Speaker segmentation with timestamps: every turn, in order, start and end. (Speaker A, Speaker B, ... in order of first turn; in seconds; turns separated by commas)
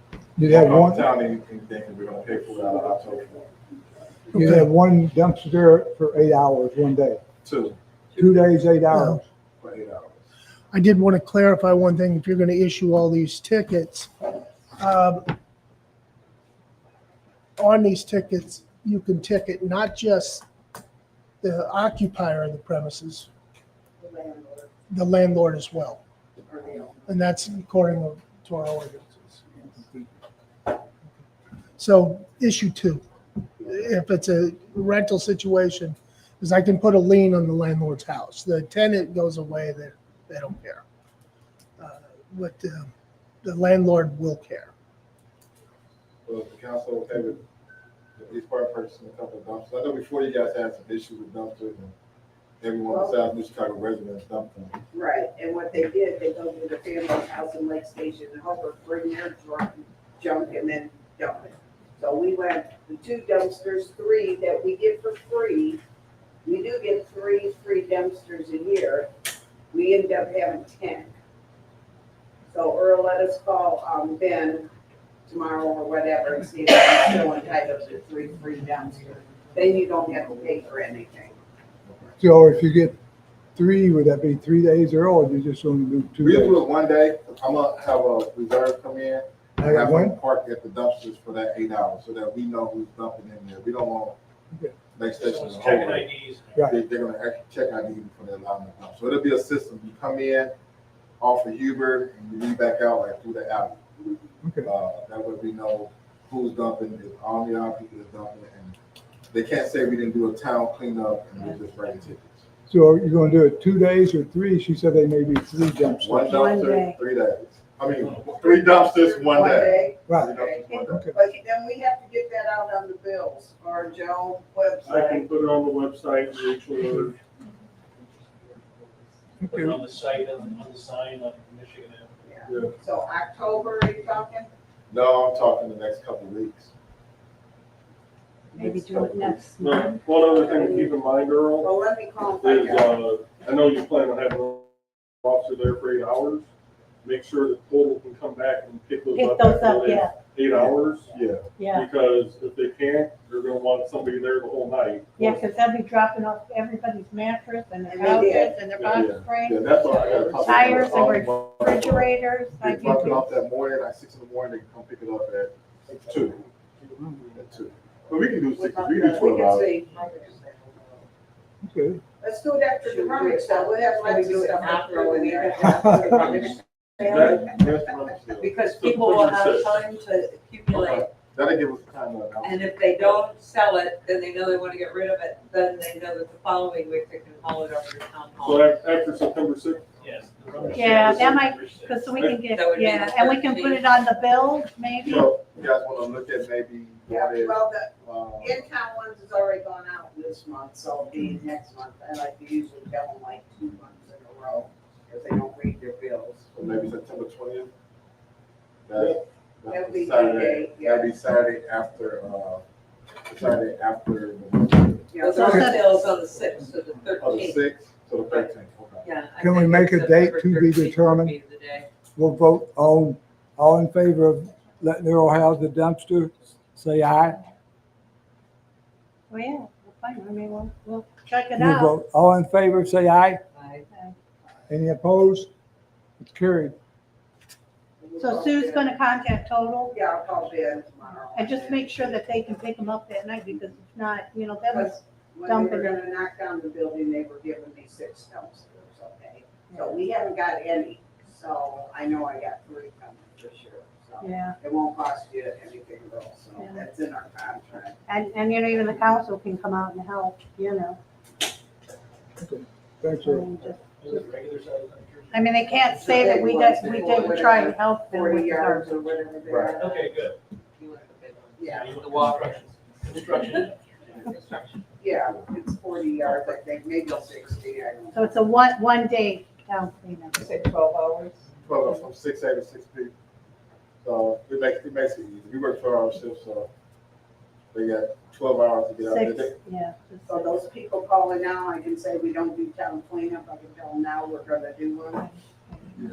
Speaker A: 0.4-1.1, Speaker B: 0.4-3.5, Speaker C: 4.3-4.7, Speaker A: 4.3-7.2, Speaker B: 7.4-7.8, Speaker A: 8.2-9.2, Speaker C: 8.9-9.2, Speaker B: 9.6-10.2, Speaker C: 10.7-14.1, Speaker C: 14.8-15.3, Speaker C: 17.6-20.4, Speaker C: 21.4-23.3, Speaker D: 24.0-24.7, Speaker C: 24.9-26.0, Speaker D: 26.5-27.1, Speaker C: 27.1-29.6, Speaker C: 31.8-33.0, Speaker C: 33.6-40.8, Speaker C: 41.8-42.9, Speaker C: 43.4-44.7, Speaker B: 46.3-47.4, Speaker B: 48.2-51.9, Speaker B: 52.6-54.8, Speaker D: 52.9-53.2, Speaker D: 54.9-65.8, Speaker D: 66.4-69.1, Speaker D: 69.7-71.1, Speaker D: 72.5-74.7, Speaker D: 75.3-81.4, Speaker B: 81.8-82.1, Speaker A: 82.2-83.0, Speaker A: 83.5-86.6, Speaker B: 86.2-94.2, Speaker A: 89.6-90.2, Speaker B: 95.0-100.5, Speaker E: 95.2-96.6, Speaker B: 101.2-103.9, Speaker A: 104.4-104.7, Speaker B: 104.6-108.8, Speaker B: 109.3-112.4, Speaker A: 112.7-116.4, Speaker B: 116.0-121.0, Speaker F: 116.3-117.0, Speaker D: 118.4-125.3, Speaker A: 120.1-120.3, Speaker A: 120.9-121.1, Speaker G: 124.8-127.2, Speaker A: 129.4-129.8, Speaker F: 129.4-129.8, Speaker E: 129.6-132.2, Speaker D: 132.2-134.5, Speaker G: 132.5-132.8, Speaker B: 134.9-136.7, Speaker B: 138.5-139.5, Speaker F: 138.5-140.1, Speaker G: 139.5-141.8, Speaker D: 140.3-141.0, Speaker D: 141.6-143.0, Speaker G: 142.3-146.5, Speaker G: 147.0-151.1, Speaker F: 149.2-150.2, Speaker B: 150.5-151.4, Speaker F: 151.6-151.9, Speaker G: 151.7-155.4, Speaker F: 155.2-163.2, Speaker D: 157.9-158.6, Speaker B: 158.8-166.4, Speaker H: 159.8-160.3, Speaker A: 162.8-163.2, Speaker B: 167.3-169.7, Speaker D: 168.5-171.0, Speaker H: 169.9-170.7, Speaker A: 171.6-172.0, Speaker D: 172.2-176.6, Speaker H: 172.8-177.4, Speaker G: 177.0-177.6, Speaker B: 177.0-178.5, Speaker H: 178.3-181.1, Speaker G: 178.8-179.7, Speaker B: 180.7-183.2, Speaker H: 182.4-189.3, Speaker G: 188.4-189.9, Speaker E: 190.0-192.1, Speaker G: 190.6-191.5, Speaker B: 190.6-191.2, Speaker F: 190.7-195.3, Speaker G: 192.1-192.4, Speaker H: 192.2-194.0, Speaker B: 195.0-198.6, Speaker D: 197.1-206.5, Speaker B: 206.5-207.7, Speaker B: 208.9-212.6, Speaker D: 209.7-211.1, Speaker B: 213.2-215.1, Speaker D: 215.1-215.9, Speaker H: 215.2-217.7, Speaker F: 215.4-215.8, Speaker B: 217.2-219.1, Speaker H: 219.0-221.9, Speaker A: 219.4-221.4, Speaker A: 222.2-227.4, Speaker F: 229.3-231.9, Speaker A: 231.6-233.4, Speaker H: 233.5-233.8, Speaker A: 234.7-235.5, Speaker A: 236.2-236.8, Speaker D: 238.0-238.9, Speaker F: 238.2-240.0, Speaker D: 239.9-242.3, Speaker F: 241.3-245.9, Speaker D: 244.7-258.0, Speaker F: 249.7-250.0, Speaker F: 254.2-254.6, Speaker F: 256.6-256.9, Speaker F: 258.1-261.0, Speaker A: 262.4-263.5, Speaker F: 263.2-264.3, Speaker E: 264.0-266.4, Speaker F: 265.3-269.1, Speaker D: 265.9-270.1, Speaker H: 267.0-267.3, Speaker E: 269.8-270.4, Speaker H: 270.8-274.9, Speaker D: 271.6-271.9, Speaker E: 271.8-273.8, Speaker D: 275.0-278.4, Speaker F: 278.1-280.4, Speaker H: 280.3-281.5, Speaker B: 281.6-283.1, Speaker B: 284.0-286.7, Speaker B: 287.7-289.6, Speaker F: 289.0-290.6, Speaker D: 290.3-295.3, Speaker F: 295.2-295.9